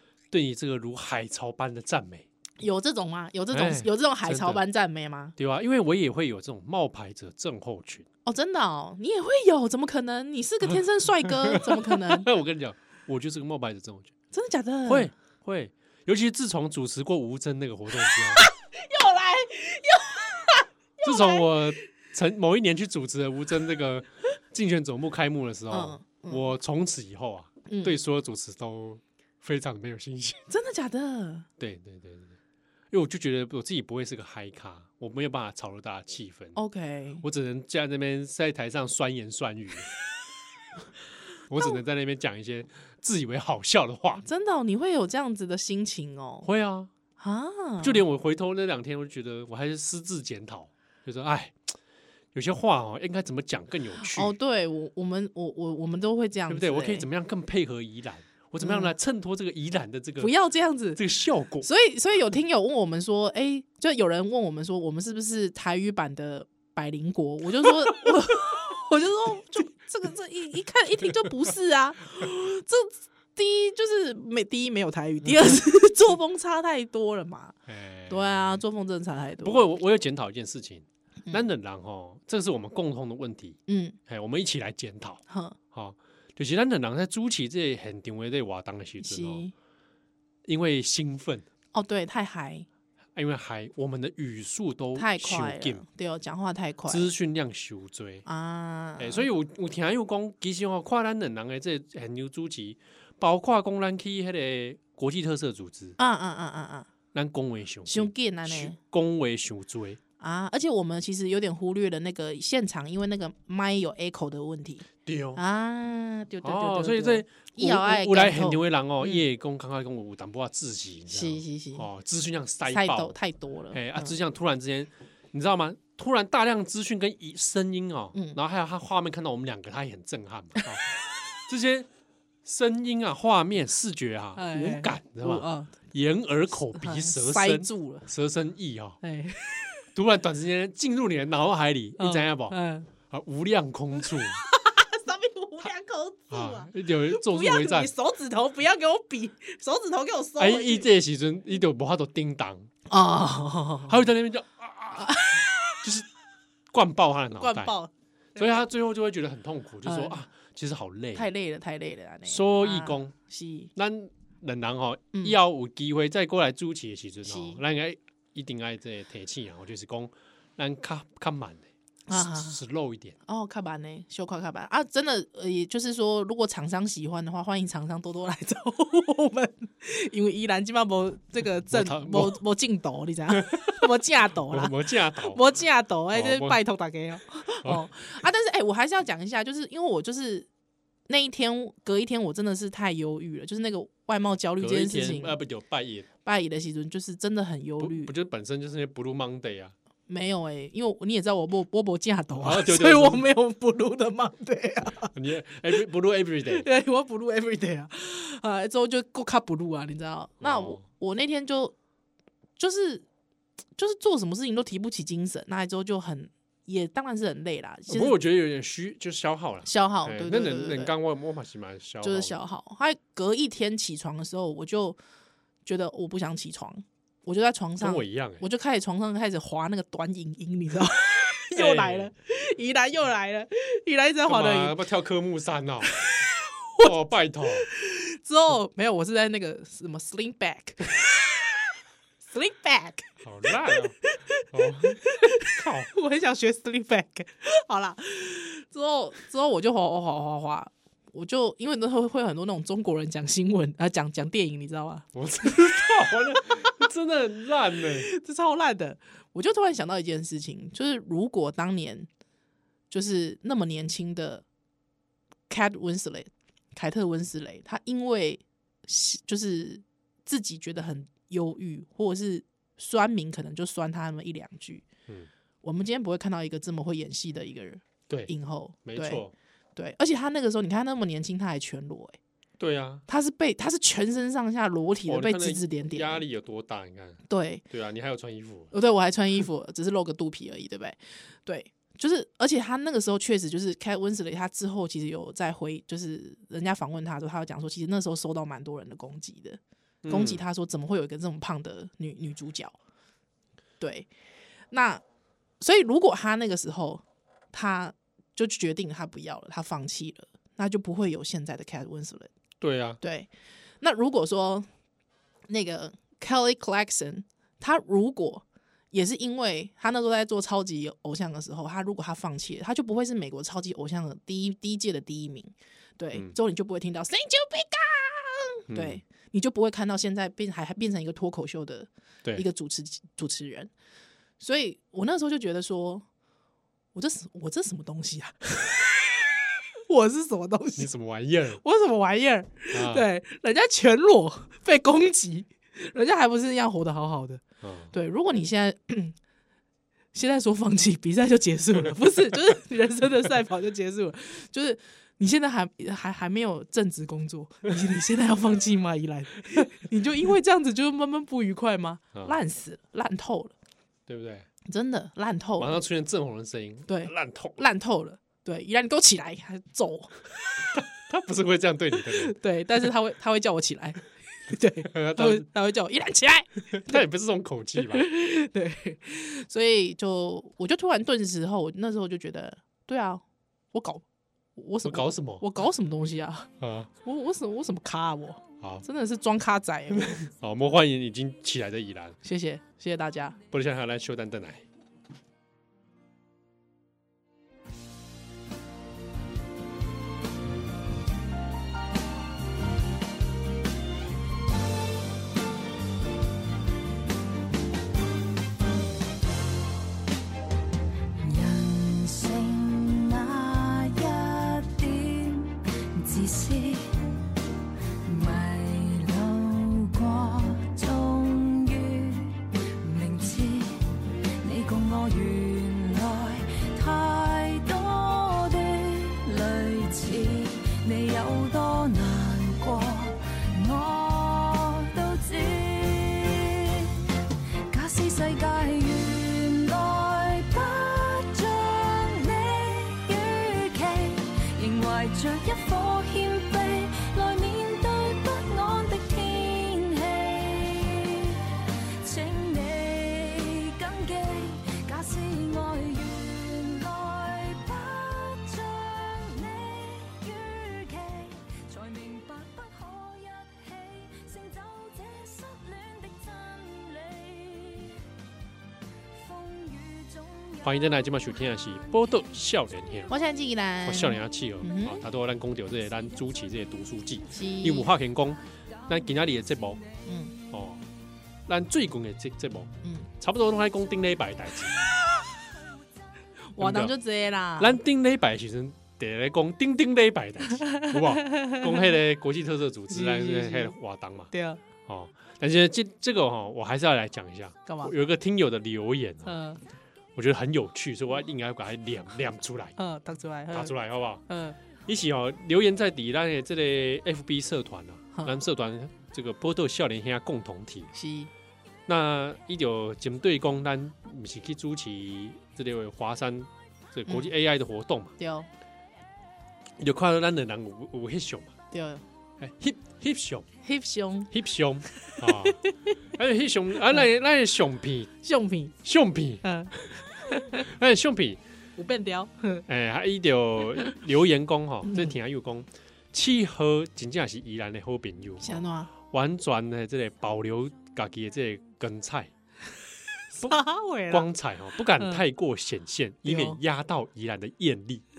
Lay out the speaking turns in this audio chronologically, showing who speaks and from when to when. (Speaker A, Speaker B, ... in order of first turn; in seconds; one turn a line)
Speaker A: 0.3-2.3
Speaker B: 2.6-5.3
Speaker A: 3.5-4.6
Speaker A: 5.4-8.1
Speaker B: 8.2-12.3
Speaker A: 11.3-14.1
Speaker B: 14.3-15.1
Speaker A: 14.9-18.4
Speaker B: 18.1-21.6
Speaker A: 21.0-30.4
Speaker B: 25.7-26.5
Speaker B: 27.7-28.0
Speaker B: 30.5-31.5
Speaker A: 31.6-32.4
Speaker A: 32.9-36.6
Speaker B: 36.6-37.2
Speaker A: 37.2-39.9
Speaker A: 41.5-44.3
Speaker B: 44.2-46.5
Speaker A: 46.4-46.9
Speaker B: 47.2-48.0
Speaker A: 47.8-51.7
Speaker A: 52.3-54.3
Speaker B: 54.0-57.1
Speaker A: 56.5-60.3
Speaker B: 58.6-58.9
Speaker B: 60.2-61.0
Speaker A: 61.0-61.7
Speaker B: 61.6-77.6
Speaker A: 77.7-78.6
Speaker B: 78.1-79.7
Speaker A: 79.4-85.2
Speaker B: 83.7-84.0
Speaker B: 85.3-85.6
Speaker A: 85.7-89.4
Speaker B: 89.0-89.5
Speaker A: 90.5-91.5
Speaker B: 91.7-92.7
Speaker A: 93.2-95.8
Speaker B: 95.0-97.1
Speaker A: 96.9-98.2
Speaker B: 98.3-99.3
Speaker A: 99.0-106.0
Speaker B: 106.0-106.9
Speaker A: 107.1-110.0
Speaker B: 107.9-108.8
Speaker B: 110.2-119.2
Speaker A: 115.0-115.4
Speaker A: 116.4-123.2
Speaker B: 121.1-121.9
Speaker B: 122.7-124.2
Speaker A: 123.7-130.9
Speaker A: 131.5-131.9
Speaker A: 132.4-139.0
Speaker B: 134.4-135.7
Speaker B: 136.8-138.1
Speaker B: 139.0-139.8
Speaker A: 139.9-142.6
Speaker B: 142.0-142.9
Speaker A: 143.1-144.4
Speaker B: 144.2-150.9
Speaker A: 146.3-147.9
Speaker A: 150.4-152.7
Speaker B: 152.9-154.1
Speaker A: 153.9-156.1
Speaker B: 155.0-155.8
Speaker A: 156.7-157.7
Speaker B: 157.4-158.7
Speaker A: 158.4-161.3
Speaker B: 159.8-160.2
Speaker B: 161.2-163.7
Speaker A: 162.3-163.2
Speaker A: 163.8-173.2
Speaker B: 167.2-167.6
Speaker B: 172.1-172.6
Speaker B: 173.3-190.5
Speaker A: 181.7-182.4
Speaker A: 183.3-183.9
Speaker A: 184.5-185.4
Speaker A: 186.1-186.6
Speaker B: 191.1-195.4
Speaker A: 194.6-196.1
Speaker B: 196.2-198.1
Speaker A: 197.8-199.7
Speaker B: 200.1-205.1
Speaker A: 202.4-203.3
Speaker A: 205.1-206.7
Speaker B: 206.5-211.7
Speaker A: 210.4-210.8
Speaker B: 212.6-213.1
Speaker B: 213.8-218.2
Speaker A: 217.9-222.4
Speaker B: 219.7-220.9
Speaker B: 222.0-225.0
Speaker B: 225.7-234.8
Speaker A: 227.8-228.4
Speaker A: 231.6-232.1
Speaker A: 234.3-235.9
Speaker B: 236.0-236.9
Speaker A: 236.8-237.7
Speaker B: 237.6-241.3
Speaker B: 242.3-255.6
Speaker A: 243.2-244.0
Speaker A: 244.5-245.9
Speaker A: 255.1-258.1
Speaker B: 258.0-262.1
Speaker B: 262.9-264.4
Speaker B: 265.5-274.9
Speaker B: 275.6-279.2
Speaker A: 278.8-279.3
Speaker B: 279.8-282.2
Speaker A: 282.6-283.1
Speaker B: 283.1-286.2
Speaker A: 285.1-288.7
Speaker B: 287.3-287.6
Speaker B: 288.7-302.8
Speaker A: 300.0-300.4
Speaker B: 303.8-304.1
Speaker B: 304.7-305.0
Speaker B: 305.6-312.3
Speaker A: 312.6-313.0
Speaker B: 313.0-313.3
Speaker B: 313.8-314.7
Speaker B: 315.5-333.7
Speaker A: 328.7-329.0
Speaker B: 334.4-336.1
Speaker B: 336.9-339.2
Speaker B: 339.9-340.9
Speaker A: 340.8-341.6
Speaker B: 341.6-347.4
Speaker A: 342.7-343.1
Speaker A: 347.6-347.9
Speaker B: 347.9-349.2
Speaker B: 350.1-363.5
Speaker A: 364.1-364.5
Speaker B: 364.7-365.8
Speaker A: 365.6-367.6
Speaker B: 366.9-370.2
Speaker A: 370.8-372.4
Speaker B: 372.0-377.0
Speaker A: 374.9-375.4
Speaker A: 376.7-378.1
Speaker B: 377.8-384.0
Speaker B: 384.6-386.5
Speaker A: 384.9-385.4
Speaker A: 386.6-386.9
Speaker B: 387.0-390.2
Speaker A: 390.1-392.2
Speaker B: 392.2-393.4
Speaker A: 393.5-394.6
Speaker C: 411.2-417.3
Speaker C: 418.0-436.9
Speaker C: 437.7-468.0
Speaker C: 469.1-471.9
Speaker A: 470.6-473.1
Speaker B: 473.1-475.0
Speaker A: 473.9-479.8
Speaker B: 477.3-477.9
Speaker C: 478.9-479.8
Speaker B: 480.1-480.3
Speaker A: 480.5-480.8
Speaker A: 481.5-484.8
Speaker B: 482.8-483.1
Speaker B: 486.6-487.8
Speaker A: 486.6-486.9
Speaker A: 487.6-494.3
Speaker B: 490.6-491.9
Speaker B: 492.9-493.7
Speaker B: 494.3-494.6
Speaker A: 494.9-499.3
Speaker B: 497.7-497.9
Speaker B: 499.3-499.6
Speaker A: 500.2-502.8
Speaker B: 502.8-503.7
Speaker A: 503.5-504.2
Speaker B: 504.3-504.6
Speaker A: 504.9-510.9
Speaker B: 510.9-511.3
Speaker A: 511.9-518.1
Speaker B: 518.2-518.5
Speaker A: 519.8-521.5
Speaker B: 521.7-522.0
Speaker A: 522.4-523.5
Speaker B: 523.6-524.3
Speaker A: 524.3-525.6
Speaker B: 525.0-525.9
Speaker A: 526.1-528.1
Speaker B: 528.2-528.7
Speaker A: 528.8-529.4
Speaker B: 529.4-530.6
Speaker A: 530.6-531.4
Speaker B: 531.8-532.6
Speaker A: 532.7-542.3
Speaker B: 534.9-535.1
Speaker B: 538.4-538.9
Speaker B: 543.3-544.3
Speaker A: 544.1-548.0
Speaker B: 546.3-546.6